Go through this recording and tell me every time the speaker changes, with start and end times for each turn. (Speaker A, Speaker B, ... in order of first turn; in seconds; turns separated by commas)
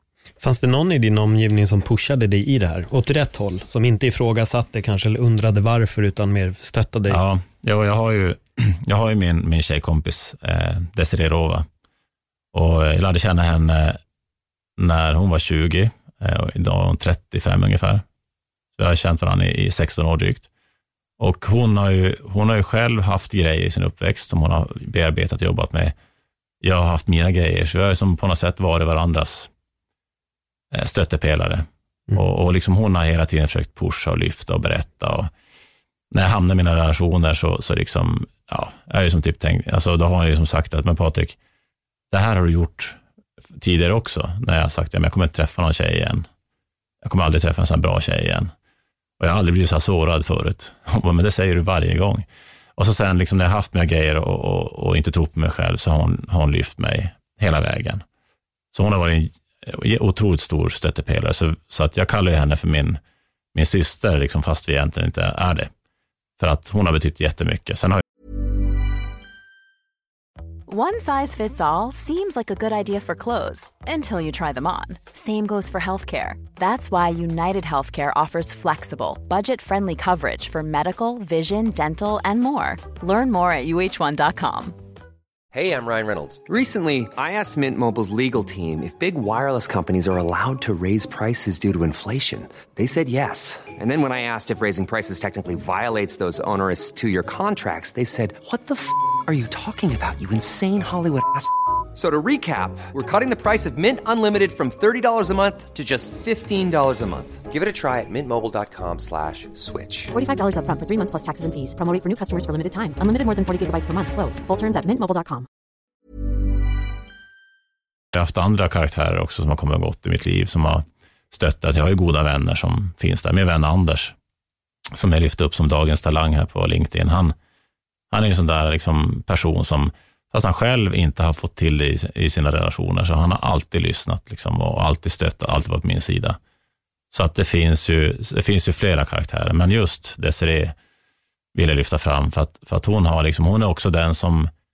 Speaker A: 0.4-7.2, Speaker B: 7.1-11.7, Speaker B: 12.5-14.0, Speaker B: 14.8-18.0, Speaker B: 18.8-20.5, Speaker B: 21.2-25.9, Speaker B: 26.6-29.5, Speaker B: 30.7-35.3, Speaker B: 36.1-41.4, Speaker B: 42.1-43.0, Speaker B: 43.6-46.3, Speaker B: 47.0-48.5, Speaker B: 49.2-58.0, Speaker B: 58.7-63.0, Speaker B: 63.5-65.7, Speaker B: 66.4-68.0, Speaker C: 70.7-84.8, Speaker D: 85.5-110.1, Speaker E: 110.1-115.5, Speaker B: 118.1-124.1, Speaker B: 124.9-127.3, Speaker B: 128.1-136.4, Speaker B: 137.1-140.7, Speaker B: 141.5-144.5